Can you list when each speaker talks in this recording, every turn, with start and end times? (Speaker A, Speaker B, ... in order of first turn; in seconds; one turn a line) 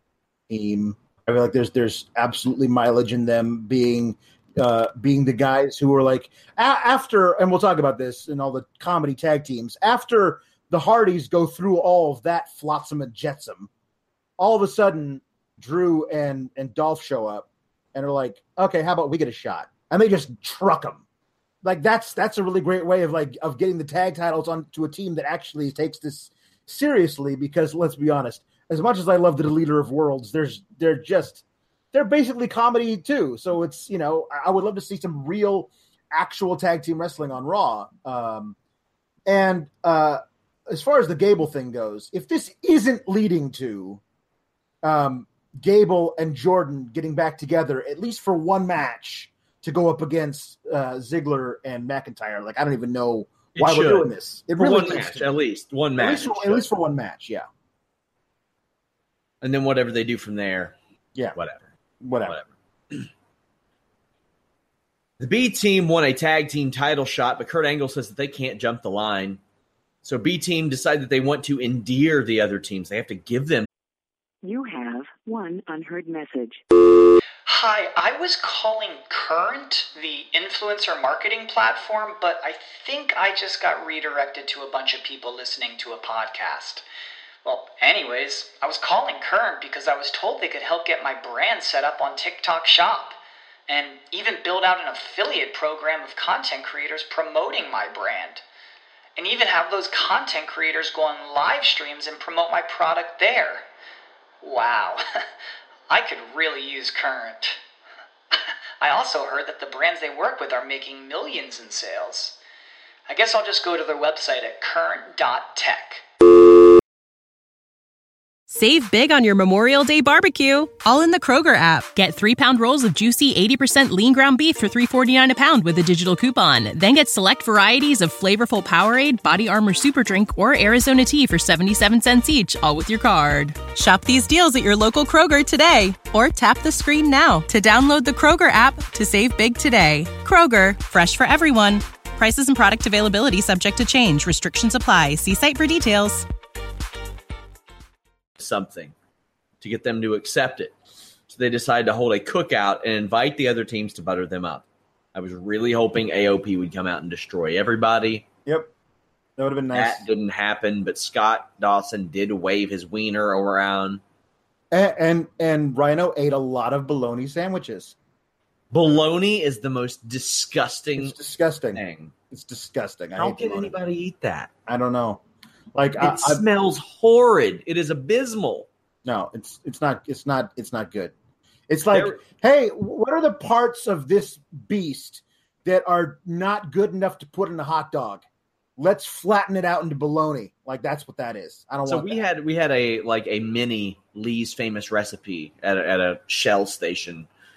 Speaker A: 0.5-13.7
Speaker A: 14.4-21.0
Speaker A: 21.6-38.6
Speaker A: 39.3-44.0
Speaker A: 44.8-55.3
Speaker B: 53.5-56.7
Speaker A: 56.0-57.5
Speaker B: 59.4-60.8
Speaker B: 61.4-61.7
Speaker A: 62.0-62.4
Speaker B: 62.3-63.1
Speaker B: 65.2-69.4
Speaker B: 70.0-73.7
Speaker C: 74.4-76.6
Speaker D: 77.5-86.8
Speaker D: 87.4-93.2
Speaker D: 93.7-98.4
Speaker D: 99.2-103.6
Speaker D: 104.4-105.0
Speaker D: 105.9-107.6
Speaker D: 108.3-112.4
Speaker D: 113.1-116.0
Speaker E: 118.5-146.2
Speaker B: 148.4-148.9
Speaker B: 149.6-150.7
Speaker B: 151.3-158.3
Speaker A: 158.5-158.7
Speaker A: 159.4-160.0
Speaker B: 159.7-164.0
Speaker A: 164.7-167.9
Speaker B: 168.7-171.2
Speaker A: 171.0-173.7
Speaker B: 171.8-172.1
Speaker B: 173.2-174.5
Speaker A: 174.7-175.2
Speaker A: 175.8-176.4
Speaker B: 176.0-178.7
Speaker A: 179.1-181.1
Speaker A: 181.7-188.2
Speaker B: 181.9-182.2
Speaker A: 188.8-192.2
Speaker B: 191.9-197.3